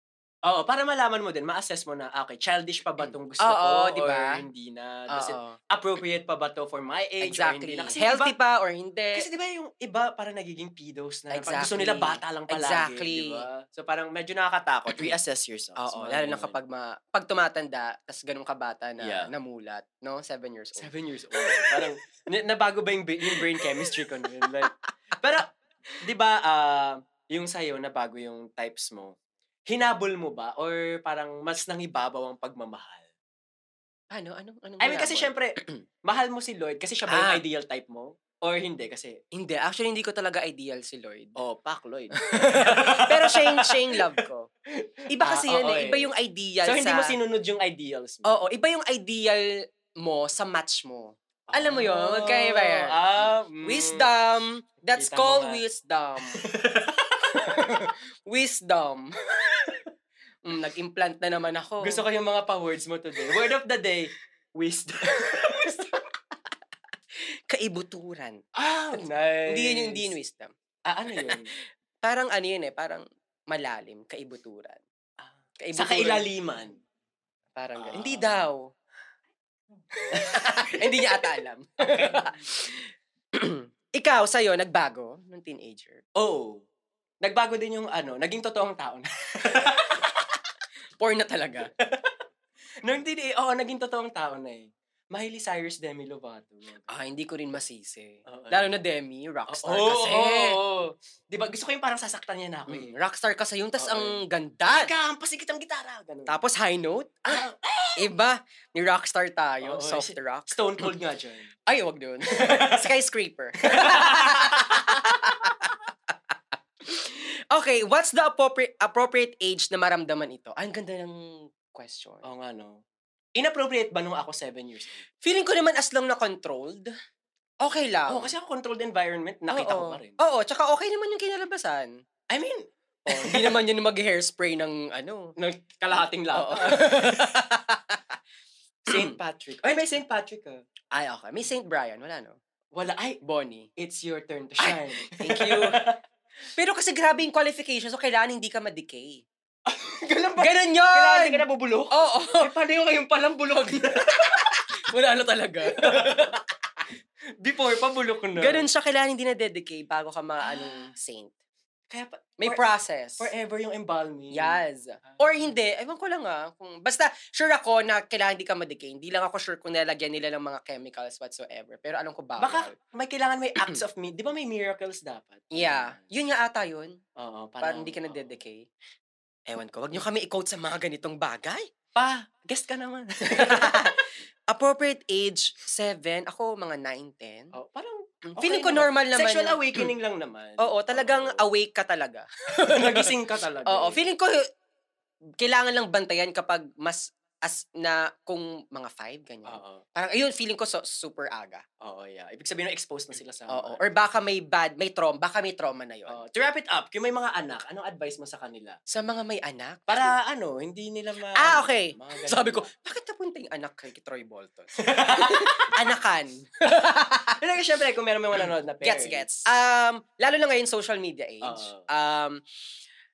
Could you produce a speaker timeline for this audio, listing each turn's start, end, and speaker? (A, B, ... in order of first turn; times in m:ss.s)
0:00.4-0:08.3 A
0:03.0-0:04.4 B
0:05.1-0:05.6 B
0:07.2-0:09.2 B
0:09.1-0:16.6 A
0:11.3-0:13.5 B
0:15.8-0:21.9 B
0:19.0-0:19.3 A
0:20.8-0:25.5 A
0:23.2-0:24.7 B
0:26.0-0:29.1 A
0:29.7-0:33.1 A
0:34.1-0:35.8 B
0:34.8-0:39.2 A
0:37.1-0:37.4 B
0:39.3-0:41.4 B
0:41.4-0:44.2 A
0:42.2-0:44.5 B
0:44.8-0:46.1 A
0:45.1-0:47.2 B
0:46.6-0:48.3 A
0:48.2-0:56.4 B
0:51.5-0:54.1 A
0:54.9-0:55.6 A
0:56.3-0:57.6 A
0:57.3-0:59.8 B
1:00.4-1:02.0 B
1:01.8-1:05.9 A
1:05.2-1:05.9 B
1:07.5-1:08.4 B
1:08.5-1:10.1 A
1:08.9-1:10.5 B
1:10.8-1:11.5 A
1:12.0-1:14.8 B
1:15.2-1:16.8 A
1:15.6-1:16.3 B
1:17.6-1:18.7 B
1:17.8-1:18.4 A
1:20.0-1:26.0 B
1:20.1-1:21.2 A
1:21.8-1:22.3 A
1:26.2-1:26.6 A
1:27.2-1:30.1 A
1:31.0-1:31.7 B
1:31.8-1:32.1 A
1:32.8-1:36.9 A
1:36.9-1:40.6 B
1:38.2-1:38.8 A
1:39.5-1:42.9 A
1:42.7-1:44.9 B
1:43.8-1:46.4 A
1:46.3-1:47.4 B
1:47.3-1:48.0 A
1:48.0-1:50.9 B
1:49.6-1:51.5 A
1:51.7-1:55.8 B
1:52.3-1:52.9 A
1:53.6-1:55.2 A
1:56.8-2:02.2 B
2:02.2-2:02.8 A
2:03.4-2:05.0 A
2:05.2-2:06.9 B
2:07.6-2:08.3 B
2:08.1-2:10.2 A
2:09.5-2:12.0 B
2:12.3-2:13.6 A
2:13.1-2:15.3 B
2:15.4-2:17.4 A
2:16.3-2:18.0 B
2:18.8-2:20.6 A
2:18.9-2:19.2 B
2:20.9-2:22.4 B
2:22.7-2:23.2 A
2:23.2-2:23.7 B
2:23.8-2:26.0 A
2:24.6-2:25.8 B
2:26.6-2:29.2 B
2:29.7-2:34.5 A
2:30.4-2:32.5 B
2:34.1-2:36.4 B
2:35.7-2:36.3 A
2:37.4-2:38.7 A
2:38.4-2:41.3 B
2:40.4-2:40.9 A
2:41.9-2:42.6 A
2:42.4-2:43.3 B
2:43.2-2:45.2 A
2:44.3-2:52.7 B
2:52.4-2:56.0 A
2:55.5-2:57.0 B
2:57.2-2:58.4 A
2:57.6-2:58.7 B
2:59.5-3:01.7 B
3:01.9-3:04.0 A
3:03.3-3:07.5 B
3:07.5-3:11.4 A
3:08.3-3:09.9 B
3:10.6-3:14.5 B
3:12.6-3:14.0 A
3:15.4-3:21.6 B
3:19.4-3:19.8 A
3:21.8-3:23.8 A
3:23.5-3:26.2 B
3:26.1-3:28.8 A
3:28.9-3:30.1 B
3:29.9-3:32.7 A
3:31.4-3:37.4 B
3:34.8-3:35.8 A
3:37.3-3:39.3 A
3:38.4-3:42.4 B
3:41.4-3:41.8 A